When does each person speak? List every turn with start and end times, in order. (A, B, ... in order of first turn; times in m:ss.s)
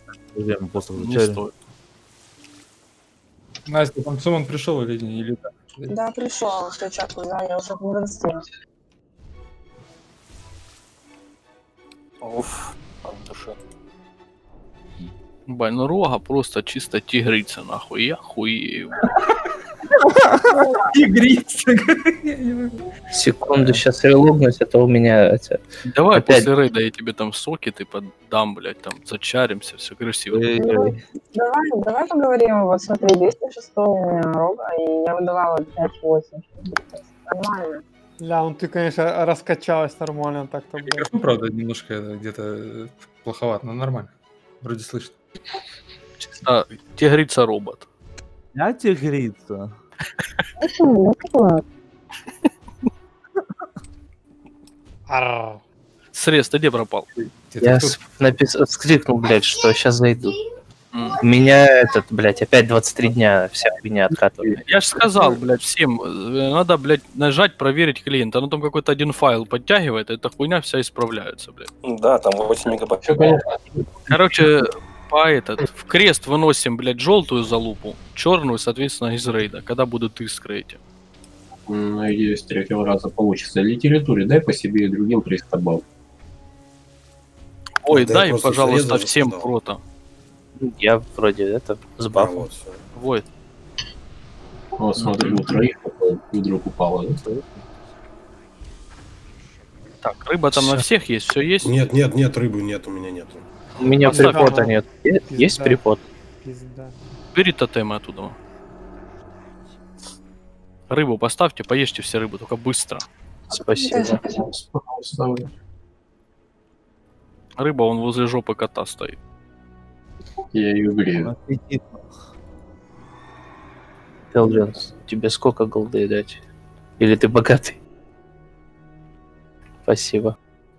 0:00.3-0:01.4 A
0:01.0-0:01.5 B
0:03.7-0:05.9 C
0:05.9-0:08.5 D
0:12.2-0:13.6 E
0:15.5-0:19.0 B
0:20.6-0:22.8 C
0:23.1-0:26.5 F
0:23.5-0:23.8 A
0:25.9-0:30.5 B
0:30.3-0:31.0 A
0:30.6-0:37.8 D
0:38.2-0:41.1 G
0:40.8-0:45.2 C
0:46.2-0:47.8 B
0:48.5-0:49.7 A
0:50.6-0:51.6 D
0:55.1-0:55.6 G
0:56.1-0:57.1 B
0:57.4-0:58.0 C
0:57.6-1:00.4 F
1:00.9-1:01.2 B
1:01.2-1:04.6 F
1:04.6-1:11.7 B
1:11.8-1:13.4 E
1:13.0-1:13.8 H
1:14.1-1:20.8 B
1:21.7-1:25.8 H
1:27.8-1:29.8 B
1:27.9-1:29.5 I
1:30.6-1:32.5 F
1:32.1-1:32.8 I
1:33.0-1:33.2 B
1:34.8-1:37.2 H
1:37.2-1:37.6 A
1:40.0-1:41.7 B
1:40.5-1:40.8 F
1:41.6-1:43.4 I
1:43.8-1:46.0 F
1:44.0-1:44.5 B
1:44.0-1:45.8 G
1:46.4-1:47.0 G
1:47.3-1:48.4 B
1:50.9-1:53.0 B
1:53.5-1:54.2 F
1:53.7-1:54.4 D
1:54.3-1:55.5 H
1:57.6-1:59.2 B
2:00.5-2:01.3 H
2:01.2-2:02.0 A
2:04.3-2:06.4 F
2:07.0-2:07.8 F
2:09.8-2:10.4 F